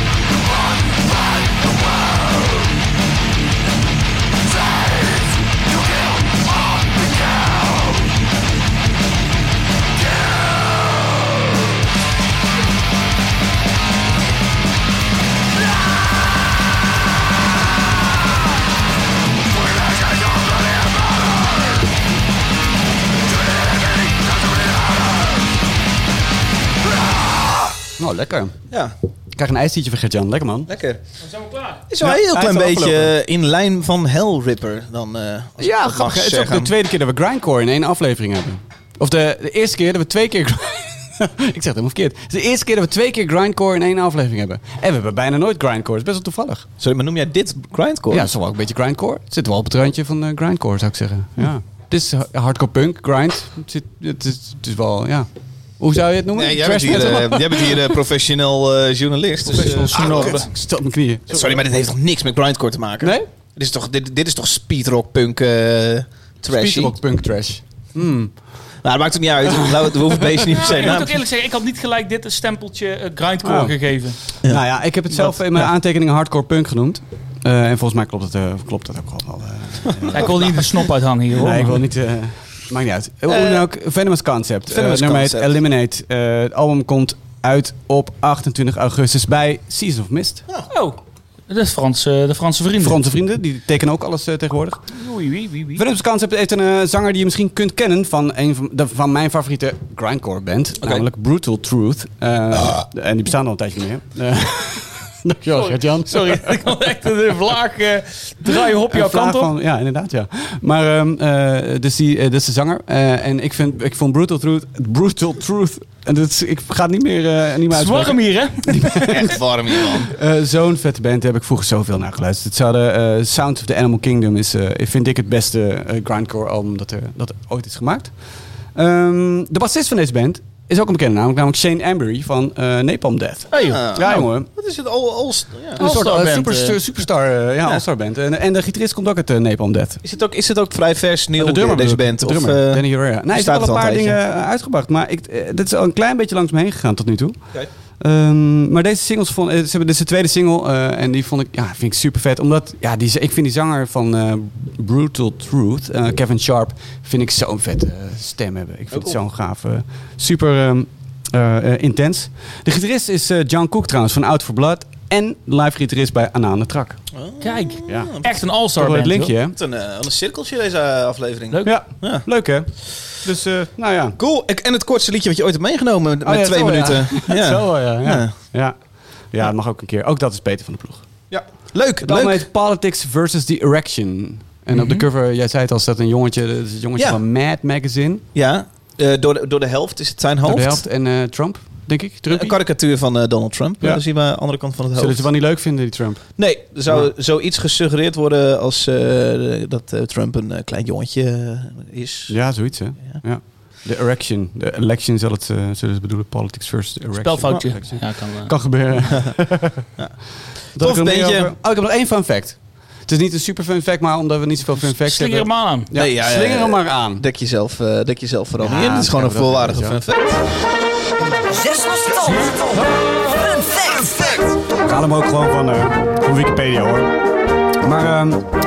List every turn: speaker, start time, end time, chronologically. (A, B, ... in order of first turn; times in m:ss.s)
0:28.0-0:28.6 A
0:29.4-0:30.7 A
0:30.7-0:31.0 B
0:31.2-0:31.8 C
0:31.9-0:36.7 B
0:32.0-0:33.1 A
0:35.6-0:46.7 A
0:46.8-0:48.3 B
0:48.1-0:55.3 A
0:55.8-0:58.0 A
0:56.3-1:00.5 B
0:59.5-1:00.5 C
0:59.6-1:01.8 A
1:01.3-1:07.0 B
1:03.0-1:03.3 A
1:06.5-1:08.4 A
1:08.8-1:11.2 B
1:09.8-1:10.9 A
1:10.6-1:14.2 C
1:13.4-1:13.8 A
1:14.3-1:20.5 A
1:14.4-1:15.7 B
1:20.1-1:20.5 B
1:20.1-1:21.8 C
1:21.4-1:30.5 A
1:23.3-1:23.6 B
1:24.7-1:25.6 B
1:30.7-1:31.0 C
1:31.5-1:33.0 C
1:32.8-1:34.8 A
1:35.0-1:35.8 C
1:35.8-1:46.6 A
1:45.5-1:49.5 C
1:48.5-2:08.1 A
1:57.7-1:59.2 C
1:59.1-2:00.1 B
2:08.8-2:14.5 A
2:13.5-2:14.2 C
2:13.6-2:15.8 B
2:15.8-2:16.8 C
2:15.8-2:20.0 A
2:20.0-2:24.2 B
2:21.4-2:27.4 A
2:28.0-2:47.0 A
2:38.9-2:39.2 B
2:47.1-2:48.3 B
2:47.4-2:49.3 C
2:47.9-2:48.2 A
2:48.8-2:49.6 A
2:49.5-2:52.2 B
2:51.6-2:54.2 A
2:54.2-2:58.3 B
2:56.2-2:58.8 A
2:59.3-3:01.0 A
3:01.3-3:02.5 B
3:02.0-3:08.2 A
3:04.7-3:05.0 B
3:08.4-3:10.8 B
3:10.5-3:12.6 A
3:12.3-3:15.3 B
3:15.0-3:16.4 A
3:16.4-3:22.4 B
3:22.3-3:29.8 A
3:27.2-3:28.5 C
3:30.8-3:31.5 B
3:30.8-3:37.2 A
3:34.8-3:35.9 C
3:36.0-3:40.4 B
3:38.6-3:40.0 A
3:41.5-3:44.6 D
3:44.8-3:47.2 A
3:47.8-3:48.5 A